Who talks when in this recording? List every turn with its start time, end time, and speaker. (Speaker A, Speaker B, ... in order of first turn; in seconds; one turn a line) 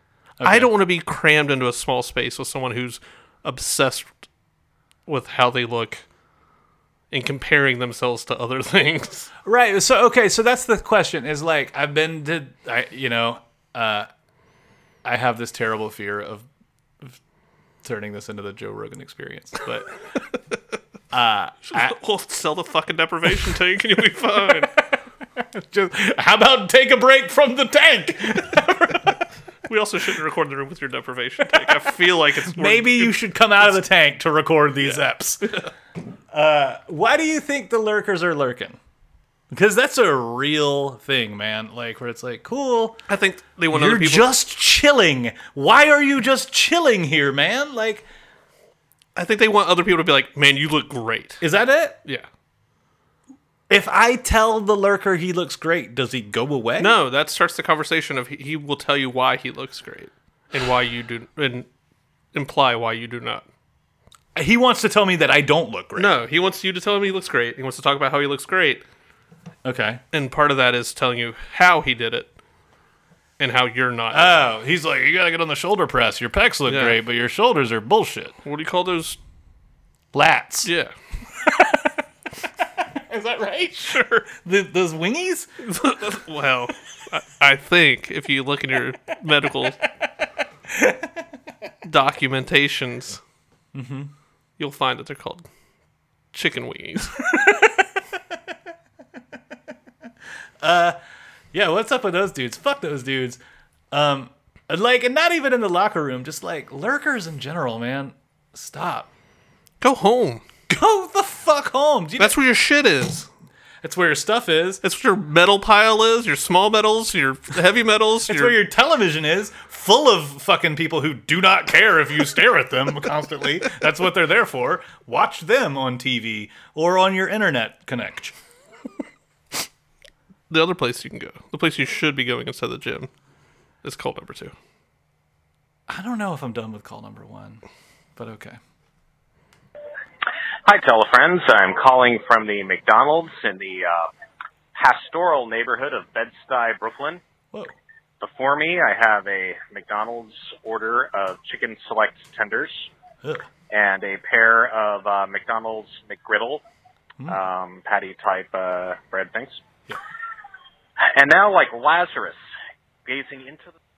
Speaker A: 0.4-0.7
Speaker B: 0.4-4.1
Speaker B: 5.1-6.0
Speaker B: 7.1-9.3
Speaker A: 9.4-14.1
Speaker A: 15.0-16.4
Speaker A: 17.8-20.0
Speaker A: 21.1-21.9
Speaker B: 21.7-24.7
Speaker A: 24.7-29.3
Speaker B: 29.7-33.8
Speaker A: 31.4-31.8
Speaker A: 32.4-35.4
Speaker B: 34.8-35.7
Speaker A: 36.3-38.8
Speaker A: 39.5-43.0
Speaker B: 43.1-44.3
Speaker A: 43.7-48.0
Speaker B: 49.1-51.4
Speaker A: 51.4-52.0
Speaker A: 53.7-56.9
Speaker B: 56.8-61.7
Speaker B: 62.3-63.5
Speaker A: 64.3-66.1
Speaker B: 66.0-68.8
Speaker A: 69.6-70.0
Speaker B: 70.1-72.3
Speaker B: 73.4-74.5
Speaker A: 74.1-78.3
Speaker B: 76.7-77.0
Speaker B: 78.4-79.2
Speaker A: 80.1-80.7
Speaker B: 80.6-80.9
Speaker A: 81.5-81.9
Speaker A: 82.8-85.5
Speaker B: 83.8-84.3
Speaker B: 85.6-89.8
Speaker A: 90.7-91.0
Speaker B: 91.8-93.2
Speaker A: 93.7-94.1
Speaker B: 94.6-95.4
Speaker B: 96.3-97.3
Speaker A: 97.3-97.7
Speaker A: 100.6-101.0
Speaker A: 101.5-103.4
Speaker A: 103.9-109.1
Speaker B: 109.8-110.4
Speaker A: 110.7-112.3
Speaker B: 112.2-113.3
Speaker A: 113.8-114.8
Speaker B: 114.8-118.5
Speaker A: 118.3-128.3
Speaker B: 130.5-133.1
Speaker B: 133.8-134.5
Speaker A: 135.9-137.6
Speaker A: 138.2-138.6
Speaker C: 140.6-144.1
Speaker C: 144.7-147.2
Speaker C: 148.2-152.9
Speaker C: 153.7-156.6
Speaker C: 157.3-159.6
Speaker C: 161.1-162.4
Speaker C: 163.0-163.7